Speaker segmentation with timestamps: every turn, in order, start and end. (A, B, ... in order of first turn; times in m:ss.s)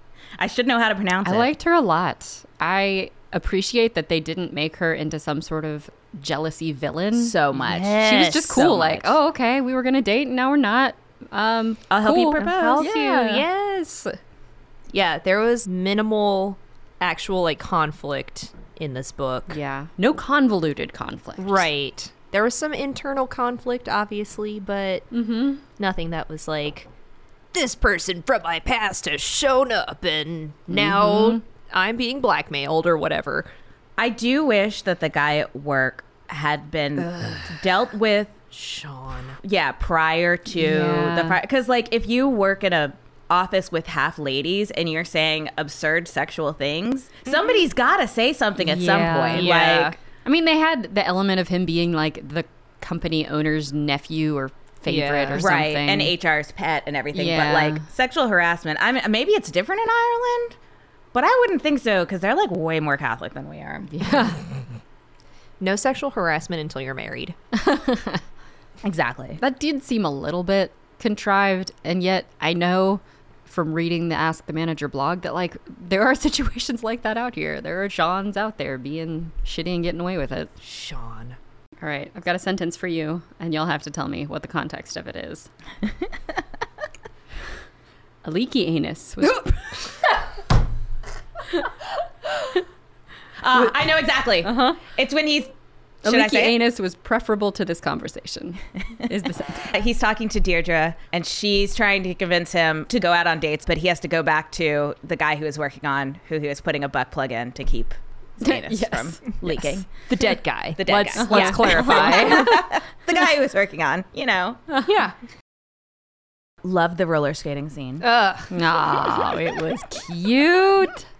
0:00.4-0:01.5 A
0:01.2-0:13.4 B
0:07.1-0:09.2 A
0:11.9-0:12.9 A
0:12.4-0:14.1 C
0:14.9-0:19.6 C
0:19.5-0:21.6 B
0:21.4-0:25.1 C
0:25.1-0:25.6 B
0:25.8-0:26.9 C
0:27.5-0:33.5 C
0:30.7-0:31.4 B
0:34.0-0:38.3 A
0:37.0-0:37.6 C
0:38.5-0:39.4 C
0:39.4-0:50.0 A
0:40.5-0:41.4 B
0:48.6-0:49.6 B
0:49.3-0:50.0 C
0:50.2-0:56.1 B
0:54.8-0:55.5 C
0:55.3-1:00.6 A
0:57.1-0:57.8 B
1:01.1-1:03.9 A
1:03.9-1:04.4 B
1:05.6-1:07.3 C
1:07.6-1:08.2 B
1:08.8-1:09.4 A
1:09.4-1:20.5 B
1:20.6-1:21.4 C
1:21.8-1:25.5 B
1:28.2-1:29.9 B
1:33.4-1:35.5 A
1:34.4-1:34.8 B
1:36.0-1:39.7 B
1:36.0-1:36.6 A
1:39.6-1:50.0 A
1:48.4-1:49.7 B
1:50.0-1:52.5 C
1:50.8-1:54.6 A
1:51.1-1:52.6 B
1:54.8-1:55.2 C
1:56.6-1:58.0 A
1:58.0-1:58.5 C
1:58.5-2:01.0 B